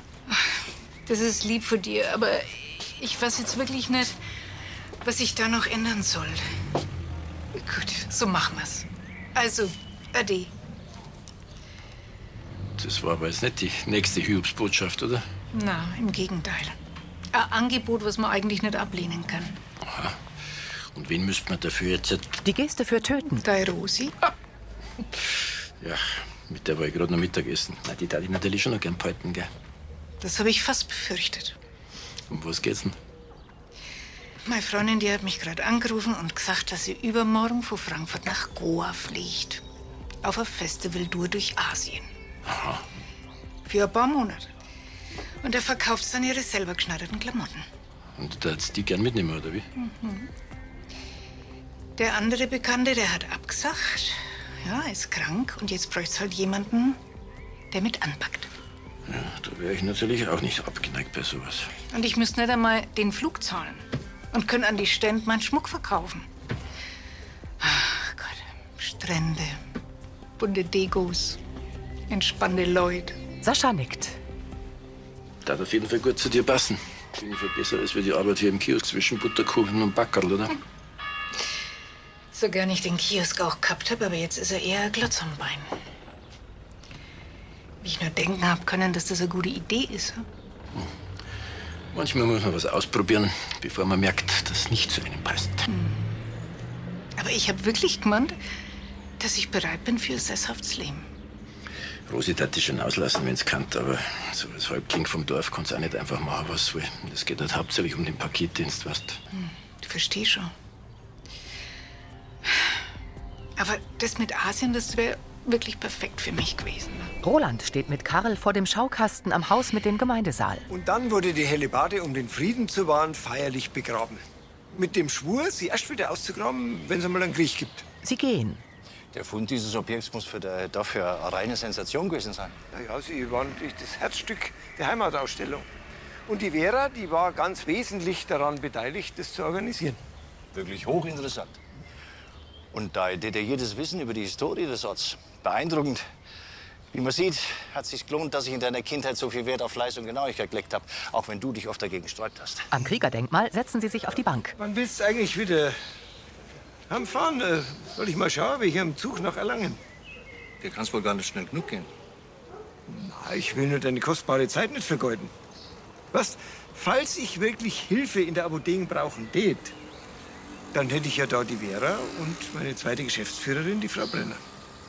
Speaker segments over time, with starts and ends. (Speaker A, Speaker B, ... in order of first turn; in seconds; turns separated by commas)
Speaker A: 0.3-4.2, Speaker A: 5.0-6.4, Speaker A: 7.5-10.5, Speaker B: 12.8-15.2, Speaker A: 15.5-16.8, Speaker A: 17.3-19.6, Speaker B: 19.8-20.2, Speaker B: 20.9-22.4, Speaker C: 22.4-23.4, Speaker A: 23.4-24.1, Speaker B: 25.8-29.5, Speaker A: 30.2-31.6, Speaker B: 32.3-33.0, Speaker A: 34.5-39.6, Speaker A: 40.2-42.1, Speaker B: 42.5-42.8, Speaker A: 43.6-44.5, Speaker A: 45.4-47.7, Speaker B: 48.2-49.6, Speaker A: 49.8-50.3, Speaker A: 52.0-57.0, Speaker A: 57.7-58.5, Speaker B: 59.1-61.7, Speaker A: 61.9-66.3, Speaker A: 67.6-69.6, Speaker A: 70.4-71.4, Speaker A: 72.1-73.2, Speaker C: 73.4-74.2, Speaker B: 75.4-80.6, Speaker A: 82.3-85.7, Speaker A: 87.8-90.2, Speaker B: 91.9-95.7, Speaker A: 95.7-96.2, Speaker A: 97.2-98.4, Speaker A: 99.2-101.0, Speaker B: 102.1-109.2, Speaker A: 109.3-110.5, Speaker A: 113.6-117.1, Speaker C: 117.2-120.7, Speaker D: 120.7-127.9, Speaker C: 128.0-128.6, Speaker E: 129.1-132.6, Speaker D: 132.7-135.7, Speaker D: 136.3-140.0, Speaker E: 140.5-141.6, Speaker E: 142.7-146.0, Speaker E: 146.9-152.7, Speaker C: 152.7-154.6, Speaker D: 154.6-155.8, Speaker D: 156.9-159.8, Speaker E: 160.6-161.9, Speaker D: 162.9-165.3, Speaker D: 166.1-169.8, Speaker D: 170.7-174.4